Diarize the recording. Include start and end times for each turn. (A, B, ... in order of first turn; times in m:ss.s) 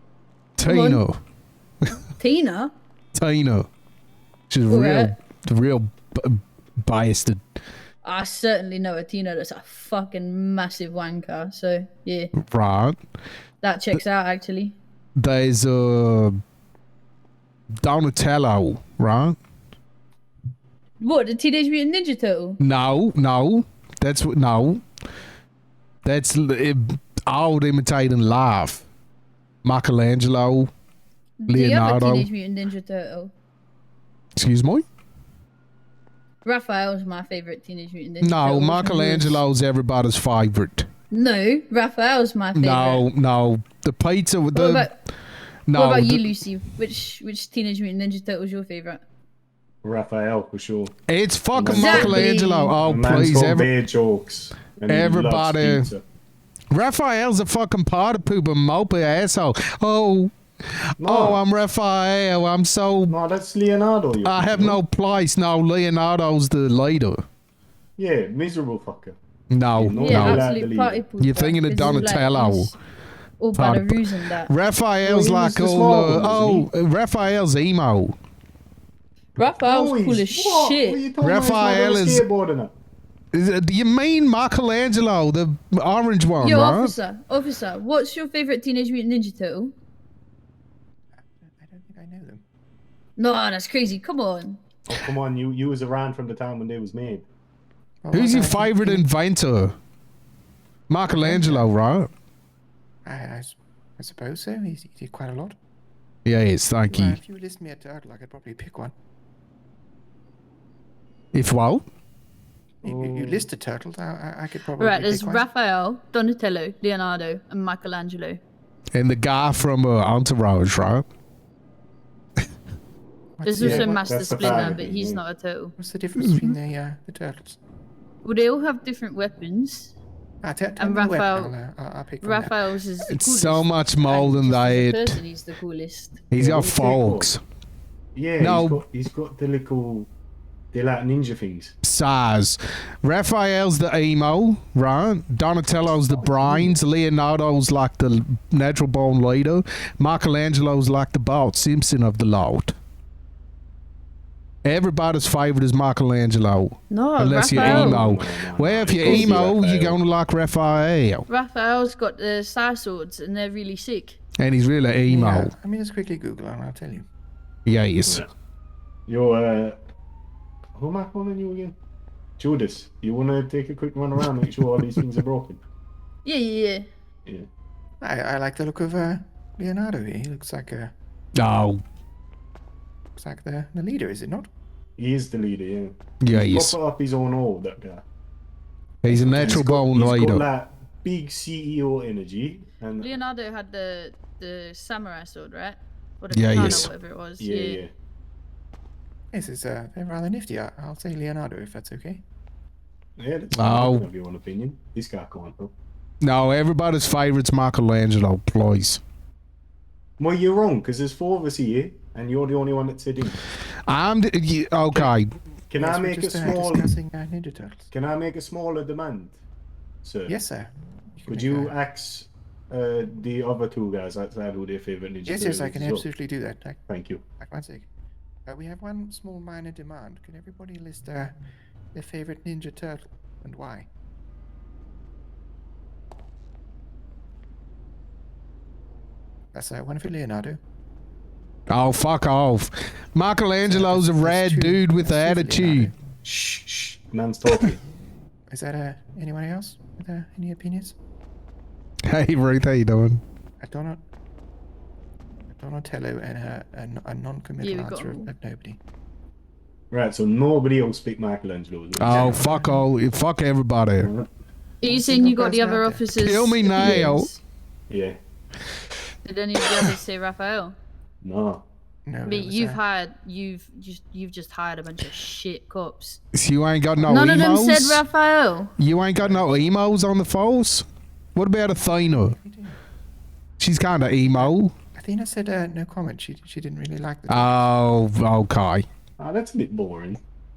0:00.6-0:01.2 A
0:00.6-0:01.0 B
0:02.2-0:02.7 B
0:03.1-0:03.7 A
0:04.5-0:07.4 A
0:04.7-0:05.1 B
0:08.0-0:12.3 B
0:12.4-0:13.0 A
0:13.6-0:14.8 B
0:15.2-0:16.4 A
0:17.8-0:19.4 A
0:21.0-0:22.6 B
0:22.6-0:24.8 A
0:26.0-0:28.8 A
0:29.6-0:30.7 A
0:31.4-0:33.3 B
0:31.5-0:32.3 A
0:34.4-0:34.8 A
0:36.4-0:39.4 B
0:38.2-0:40.9 A
0:41.1-0:43.0 B
0:42.5-0:44.9 A
0:44.5-0:45.0 B
0:45.7-0:46.3 A
0:45.7-0:49.0 B
0:49.8-0:50.9 C
0:51.1-0:53.7 A
0:51.5-0:52.3 C
0:51.7-0:52.8 B
0:52.8-0:56.0 C
0:54.9-0:55.9 A
0:56.7-1:03.2 A
1:01.0-1:01.4 C
1:03.1-1:04.8 C
1:04.2-1:07.2 A
1:08.0-1:09.2 C
1:09.5-1:10.5 A
1:09.8-1:11.0 C
1:10.0-1:12.7 B
1:11.2-1:12.7 A
1:13.4-1:14.5 B
1:13.5-1:18.1 A
1:15.0-1:16.7 C
1:19.4-1:21.0 B
1:19.4-1:22.7 C
1:21.2-1:22.2 A
1:23.3-1:26.9 A
1:26.4-1:29.7 B
1:31.1-1:32.4 D
1:33.2-1:34.6 B
1:34.9-1:37.3 C
1:38.0-1:39.1 D
1:38.1-1:39.7 A
1:40.9-1:42.1 A
1:41.1-1:41.7 D
1:43.0-1:45.6 D
1:46.2-1:47.2 A
1:46.9-1:48.9 D
1:51.3-1:51.8 A
1:52.8-1:53.5 C
1:52.8-1:55.5 D
1:54.8-1:58.4 B
1:58.9-2:01.0 A
2:03.4-2:04.8 D
2:03.4-2:05.7 B
2:03.6-2:05.2 C
2:05.8-2:07.6 D
2:06.2-2:06.5 A
2:08.2-2:09.9 B
2:10.4-2:12.6 D
2:10.8-2:11.6 B
2:12.2-2:16.2 B
2:13.1-2:15.2 A
2:16.3-2:17.4 A
2:16.4-2:17.3 C
2:18.1-2:20.1 C
2:18.4-2:18.8 A
2:20.7-2:21.7 C
2:21.8-2:32.7 A
2:26.1-2:26.8 C
2:34.6-2:41.2 A
2:36.9-2:38.1 B
2:37.5-2:40.0 C
2:41.3-2:44.2 B
2:44.4-2:45.5 A
2:45.1-2:47.0 D
2:47.6-2:48.2 A
2:49.1-2:49.8 C
2:50.8-2:51.7 C
2:52.4-2:55.6 C
2:56.2-2:56.8 B
2:58.0-3:00.9 D
3:01.4-3:01.8 A
3:03.2-3:04.5 D
3:05.0-3:08.0 C
3:06.2-3:06.8 A
3:09.0-3:10.4 A
3:09.1-3:13.1 C
3:09.3-3:09.6 D
3:13.0-3:17.8 B
3:16.3-3:16.9 A
3:16.5-3:16.9 C
3:17.4-3:17.9 C
3:19.3-3:22.2 D
3:23.2-3:25.7 C
3:23.5-3:24.1 A
3:26.2-3:29.0 A
3:30.2-3:33.4 C
3:33.8-3:35.3 A
3:35.7-3:36.9 C
3:35.8-3:37.9 D
3:37.9-3:39.4 C
3:40.0-3:40.3 C
3:40.3-3:41.7 D
3:41.3-3:46.0 C
3:45.2-3:46.8 D
3:46.9-3:47.2 C
3:47.4-3:47.9 D
3:48.4-3:51.4 D
3:51.9-3:53.9 D
3:59.5-4:00.6 D
4:01.7-4:05.9 A
4:03.6-4:06.0 D
4:06.2-4:07.8 C
4:08.5-4:10.9 D
4:12.1-4:13.2 A
4:13.6-4:14.0 D
4:15.5-4:18.8 D
4:17.6-4:18.3 B
4:19.9-4:22.4 C
4:22.0-4:24.1 A
4:22.0-4:22.9 D
4:24.0-4:24.3 C
4:24.8-4:27.4 B
4:24.8-4:26.0 D
4:26.2-4:27.3 A
4:26.8-4:27.1 C
4:27.9-4:28.2 C
4:29.2-4:30.8 B
4:31.2-4:31.6 C
4:32.0-4:32.8 D
4:32.2-4:36.2 B
4:36.3-4:38.0 A
4:37.0-4:37.4 D
4:37.1-4:38.7 B
4:38.8-4:42.4 A
4:39.2-4:39.6 D
4:41.9-4:42.8 D
4:43.6-4:44.7 A
4:44.2-4:47.6 D
4:47.3-4:48.8 A
4:49.2-4:50.2 C